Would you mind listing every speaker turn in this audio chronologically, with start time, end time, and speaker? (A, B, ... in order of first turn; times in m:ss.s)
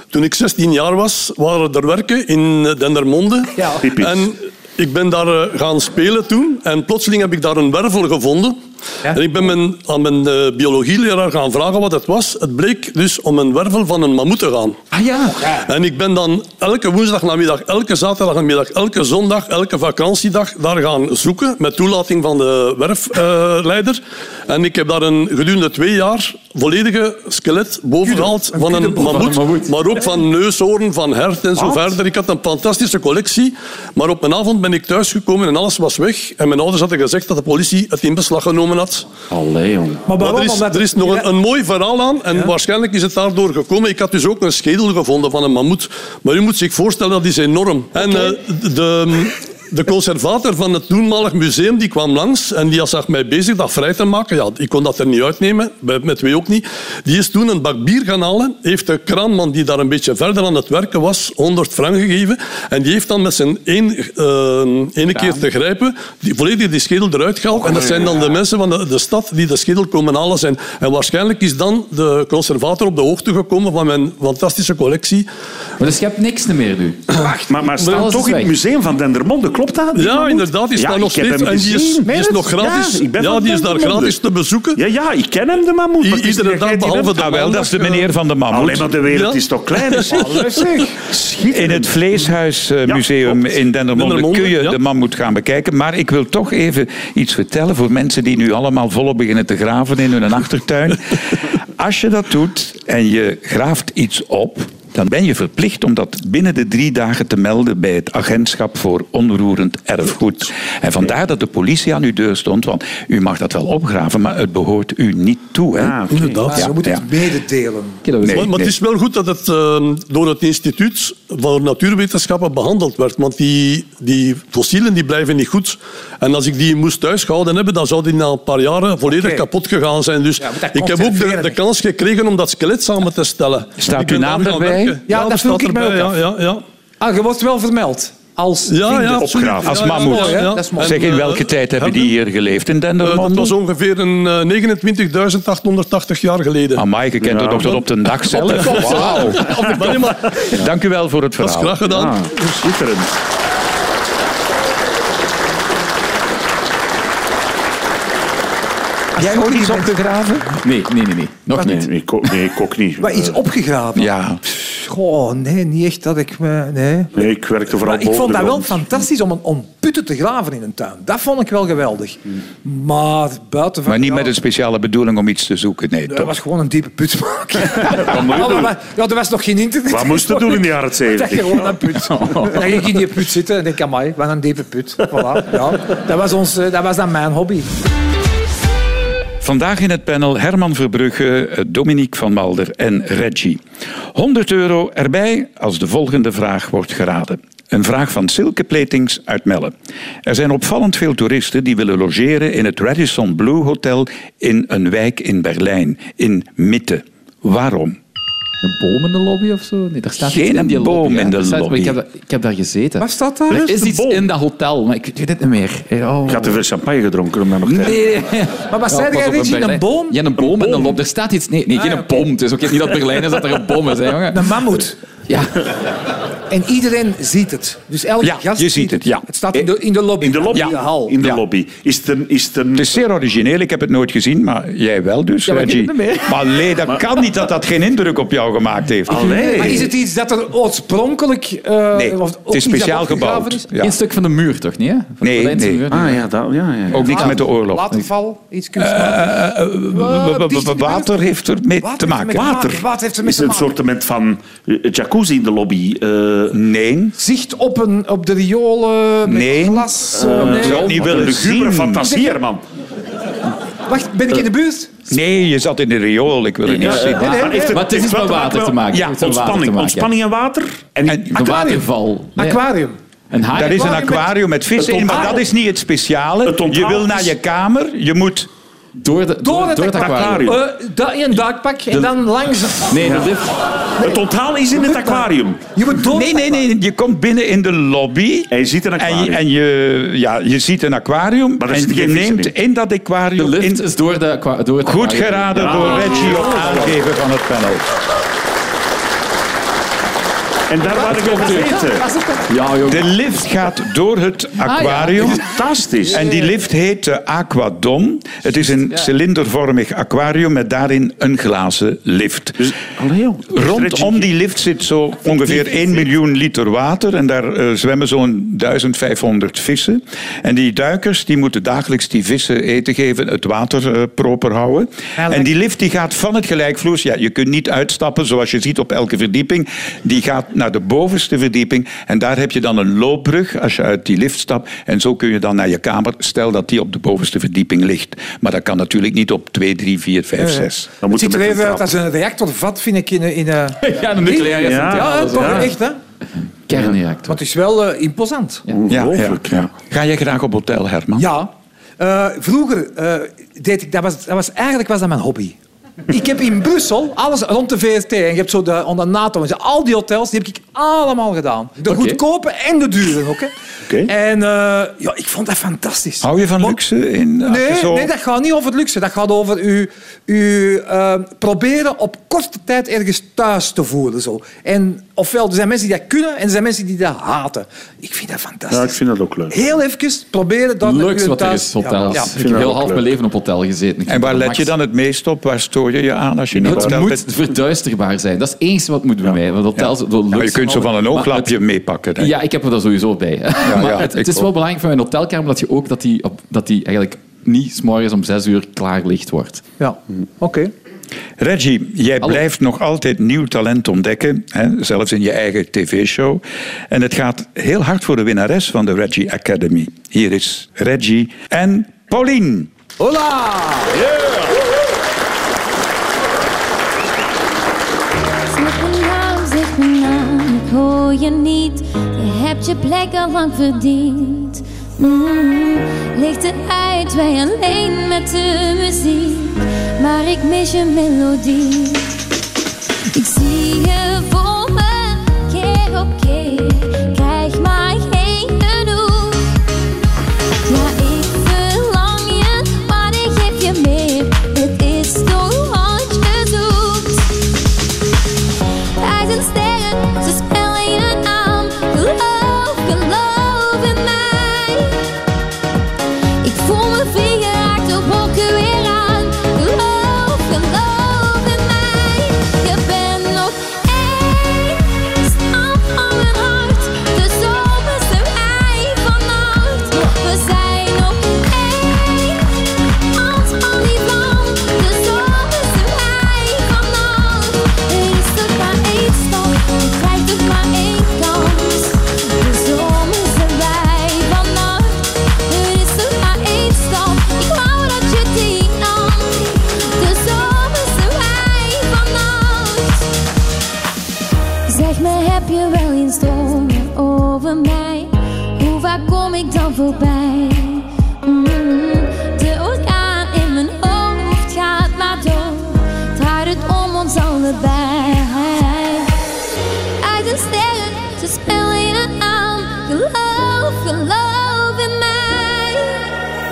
0:00.1-0:14.8 A
0:03.6-0:03.8 B
0:03.8-0:04.3 C
0:14.9-0:15.7 B
0:15.5-0:39.1 A
0:28.0-0:29.4 B
0:29.0-0:29.7 D
0:31.6-0:31.9 C
0:39.3-0:40.2 C
0:40.0-0:41.3 B
0:40.2-1:15.2 A
1:05.1-1:05.4 D
1:07.6-1:08.3 C
1:15.8-1:17.1 D
1:17.1-1:17.5 B
1:17.4-1:24.2 C
1:17.8-1:18.5 D
1:19.9-1:24.8 A
1:22.0-1:22.5 B
1:24.7-1:27.3 C
1:26.0-1:28.1 A
1:27.1-1:28.9 E
1:28.5-1:31.9 C
1:29.1-1:30.4 A
1:30.1-1:31.0 B
1:31.5-1:56.0 E
1:33.9-1:34.8 A
1:55.7-1:56.6 C
1:56.1-1:56.5 A
1:56.4-1:58.0 B
1:56.5-1:57.0 E
1:58.0-1:58.5 D
1:58.2-1:58.7 E
1:58.3-2:16.6 A
2:09.0-2:09.4 B
2:10.4-2:11.6 B
2:13.8-2:15.0 E
2:15.1-2:16.2 B
2:17.0-2:21.1 B
2:18.7-2:22.0 A
2:19.1-2:20.3 C
2:19.7-2:23.5 E
2:23.0-2:26.8 A
2:26.7-2:31.9 E
2:27.2-2:27.8 C
2:28.3-2:30.6 A
2:28.9-2:29.4 D
2:31.4-2:32.2 A
2:31.8-2:33.1 C
2:39.2-2:39.9 B
2:39.2-2:40.6 E
2:40.6-2:41.8 D
2:41.6-2:43.4 C
2:43.0-2:54.3 B
2:44.0-2:44.4 E
2:47.1-2:48.8 C
2:53.8-2:56.3 E
2:56.1-3:07.7 B
2:57.8-2:58.7 C
2:59.9-3:01.9 C
3:02.1-3:02.6 D
3:09.4-3:13.6 E
3:14.1-3:19.7 E
3:20.2-3:28.0 E
3:28.6-3:36.6 D
3:30.2-3:32.0 E
3:33.0-3:33.6 B
3:33.5-3:34.3 C
3:36.2-3:38.0 C
3:37.6-3:44.6 D
3:38.7-3:40.2 B
3:41.7-3:42.2 B
3:44.3-3:45.0 B
3:45.3-3:45.6 D
3:46.5-3:51.1 B
3:48.2-3:49.2 E
3:50.2-3:52.9 C
3:50.5-3:51.4 E
3:52.7-3:59.8 E
3:55.5-3:56.3 D
3:59.1-3:59.9 C
3:59.1-4:03.6 B
4:01.9-4:03.9 E
4:03.8-4:06.2 D
4:05.2-4:05.8 E
4:05.9-4:07.3 C
4:06.9-4:08.0 E
4:06.9-4:11.2 B
4:08.8-4:12.6 E
4:11.8-4:13.8 B
4:12.3-4:16.6 C
4:16.5-4:17.2 E
4:17.2-4:21.0 B
4:19.2-4:22.0 E
4:20.1-4:22.6 C
4:22.0-4:22.4 B
4:23.9-4:24.9 B
4:25.1-4:27.4 E
4:26.7-4:31.6 C
4:26.8-4:27.8 B
4:27.2-4:30.1 D
4:31.0-4:31.3 E
4:31.3-4:33.0 B
4:31.3-4:32.6 D
4:33.3-4:34.0 D
4:33.5-4:38.5 E
4:33.8-4:34.2 B
4:34.8-4:35.4 C
4:35.1-4:35.4 B
4:36.4-4:37.3 C
4:39.0-4:40.5 D
4:39.4-4:43.0 B
4:39.9-4:40.6 C
4:42.9-4:43.6 D
4:43.0-4:43.3 C
4:44.0-4:45.7 C
4:44.7-4:46.6 B
4:46.0-4:53.8 E
4:48.5-4:49.4 C
4:51.6-4:52.5 C
4:53.4-4:56.9 D
4:54.8-4:57.8 E
4:55.5-4:57.0 C
5:00.7-5:02.1 C
5:00.8-5:03.1 D
5:01.4-5:02.4 B
5:02.8-5:05.4 E
5:04.6-5:05.5 D
5:05.3-5:06.2 C
5:06.1-5:06.4 D
5:06.1-5:12.7 E
5:12.6-5:14.3 C
5:13.5-5:40.9 E
5:25.2-5:25.5 B
5:40.4-5:46.0 B
5:41.0-5:41.9 C
5:43.8-5:45.8 D
5:44.5-5:45.7 C
5:46.7-5:47.4 D
5:47.3-5:48.6 B
5:48.7-5:49.7 C
5:48.9-5:51.3 E
5:51.2-5:55.6 B
5:56.1-6:03.5 B
6:01.8-6:02.2 D
6:04.0-6:06.8 B
6:06.2-6:08.1 E
6:07.4-6:19.0 B
6:18.7-6:19.5 C
6:19.5-6:22.3 B
6:20.8-6:24.7 D
6:22.2-6:23.0 C
6:24.1-6:27.2 E
6:26.5-6:27.0 C
6:26.6-6:31.5 D
6:29.8-6:32.3 E
6:32.2-6:39.6 D
6:33.6-6:34.5 E
6:39.8-6:40.7 B
6:41.4-6:52.7 E
6:53.0-6:54.0 B
6:58.5-7:12.2 F
7:13.1-7:19.5 F
7:20.7-7:27.4 F
7:29.0-7:35.1 F
7:36.4-8:13.1 F
8:14.7-8:29.1 F
8:30.0-8:36.2 F